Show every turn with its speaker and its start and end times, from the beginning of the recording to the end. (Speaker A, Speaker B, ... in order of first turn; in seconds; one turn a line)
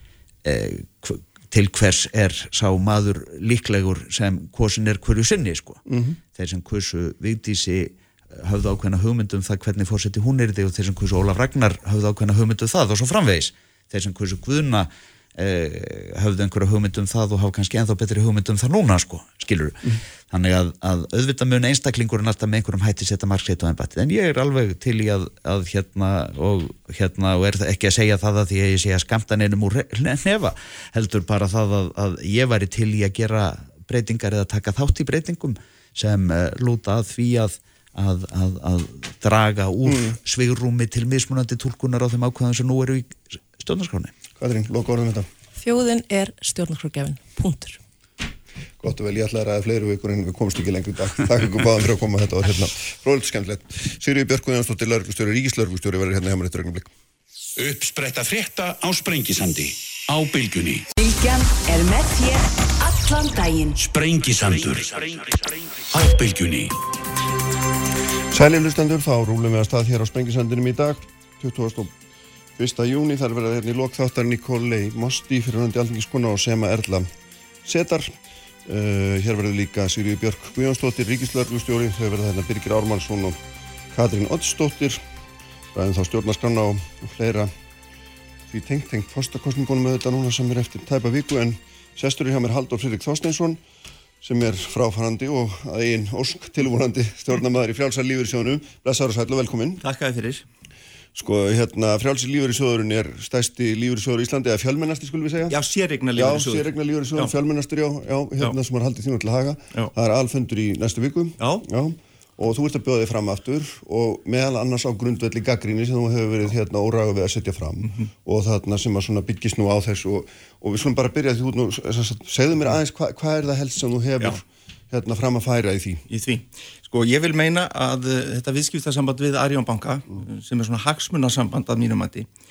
Speaker A: 0.4-5.8
Speaker B: 5.9-6.2
Speaker A: 6.3-44.1
Speaker B: 39.9-40.2
Speaker B: 44.4-45.3
Speaker C: 45.5-47.8
Speaker B: 48.8-56.9
Speaker D: 57.6-60.9
Speaker E: 61.0-63.8
Speaker D: 63.8-66.7
Speaker B: 68.3-71.9
Speaker B: 72.6-77.1
Speaker B: 77.6-78.1
Speaker B: 78.7-83.4
Speaker B: 83.9-85.0
Speaker B: 85.7-87.5
Speaker B: 88.5-93.6
Speaker B: 94.2-99.8
Speaker F: 99.8-100.4
Speaker B: 101.1-105.5
Speaker F: 105.5-107.3
Speaker B: 106.1-126.0
Speaker F: 111.4-111.6
Speaker F: 126.1-132.3